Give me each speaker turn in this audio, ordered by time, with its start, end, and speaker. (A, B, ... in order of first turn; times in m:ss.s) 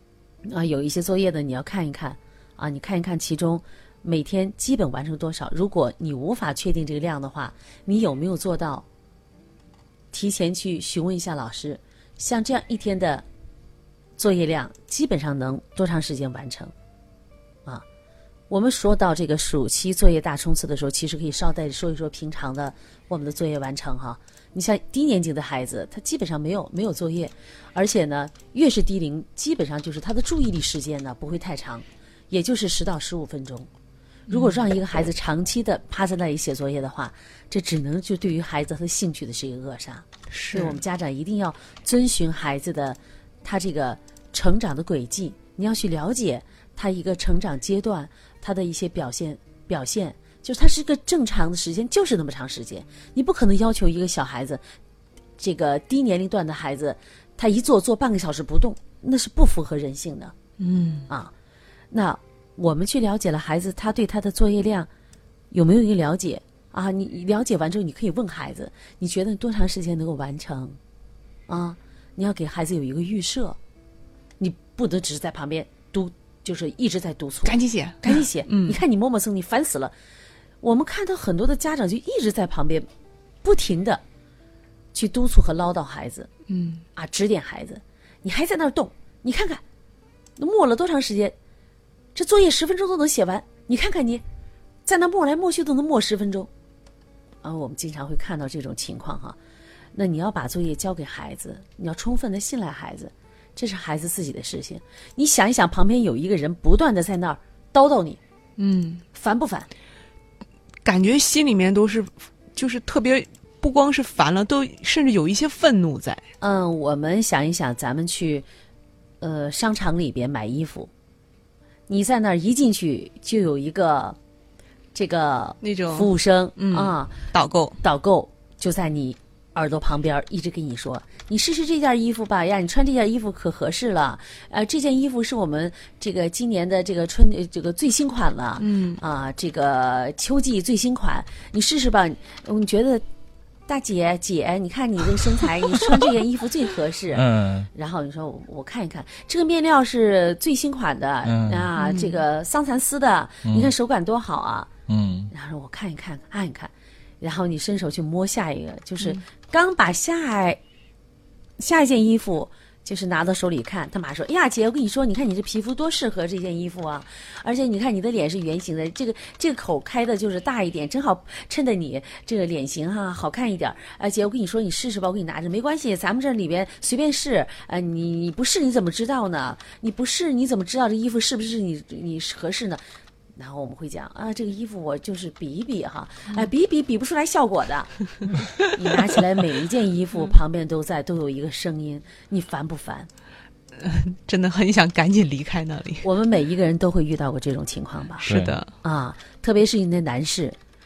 0:00.4-0:08.8 A
0:10.1-0:13.2 A
0:14.2-0:16.7 A
0:18.5-0:33.7 A
0:34.3-0:34.6 B
0:34.3-0:54.6 A
0:40.3-0:40.8 B
0:55.4-1:00.3 A
1:00.6-1:01.1 B
1:01.9-1:04.9 A
1:05.5-1:10.8 A
1:11.5-1:13.6 A
1:14.4-1:19.9 A
1:17.4-1:18.8 B
1:20.6-1:22.9 A
1:23.4-1:24.0 A
1:24.9-1:26.3 A
1:26.5-1:26.8 B
1:26.9-1:29.6 A
1:30.4-1:31.3 A
1:32.1-1:34.2 A
1:34.8-1:36.5 A
1:37.4-1:39.4 A
1:39.9-1:48.2 A
1:48.6-1:49.0 B
1:49.1-1:49.7 A
1:50.8-1:56.2 B
1:56.4-1:58.4 A
1:59.2-2:00.9 A
2:01.9-2:04.2 A
2:04.9-2:07.2 A
2:05.6-2:07.8 B
2:07.8-2:23.0 A
2:18.6-2:19.0 B
2:23.7-2:34.7 A
2:27.1-2:27.7 C
2:31.2-2:31.7 C
2:31.8-2:32.2 B
2:33.4-2:33.7 C
2:34.9-2:35.3 C
2:35.3-2:40.6 A
2:41.6-3:02.8 A
3:03.4-3:07.9 A
3:08.6-3:13.1 A
3:13.8-3:16.0 B
3:16.0-3:18.3 A
3:18.2-3:18.7 B
3:18.2-3:18.6 C
3:18.8-3:20.6 A